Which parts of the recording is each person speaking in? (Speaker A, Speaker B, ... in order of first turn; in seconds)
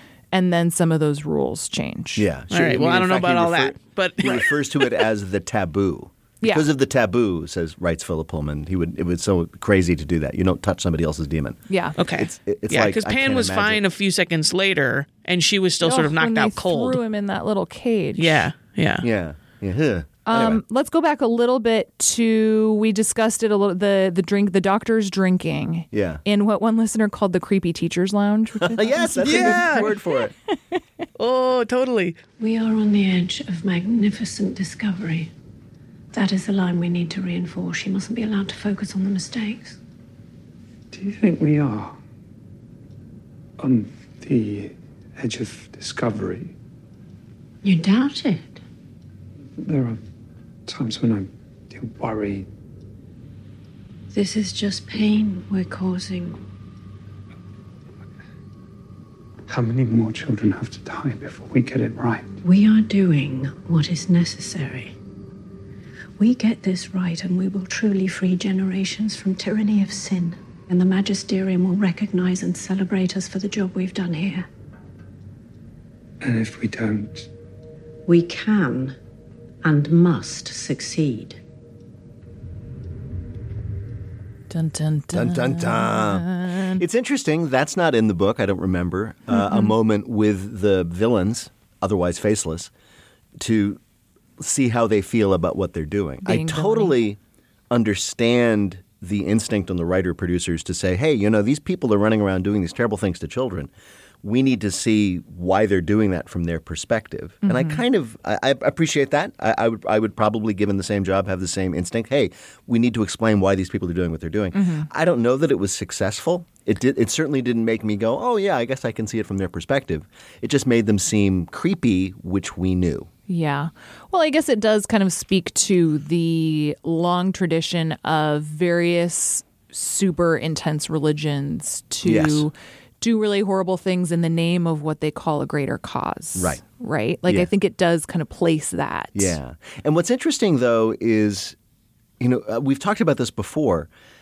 Speaker A: 0.3-2.3, 11.7-12.0, 15.8-18.4, 20.3-29.9, 84.5-86.8, 89.3-89.7, 96.2-97.0, 107.4-107.8, 114.5-114.9, 123.3-139.4
Speaker B: 2.2-13.8, 19.0-20.6, 25.9-26.2, 28.6-30.3, 85.1-92.7, 93.4-93.8, 94.4-97.2, 97.7-103.7, 104.2-123.1, 132.0-132.5, 136.4-136.6, 139.2-141.6, 142.2-143.9
Speaker C: 2.5-4.8, 12.0-17.0, 18.2-19.1, 29.2-29.9, 31.2-32.2
Speaker D: 32.4-35.3, 36.1-39.8, 47.6-48.6, 54.1-56.4, 62.4-65.0, 66.2-74.5, 78.1-79.0, 79.6-81.4
Speaker E: 40.9-42.0, 43.6-46.5, 49.6-50.0, 50.7-52.5, 59.5-62.3, 76.2-77.3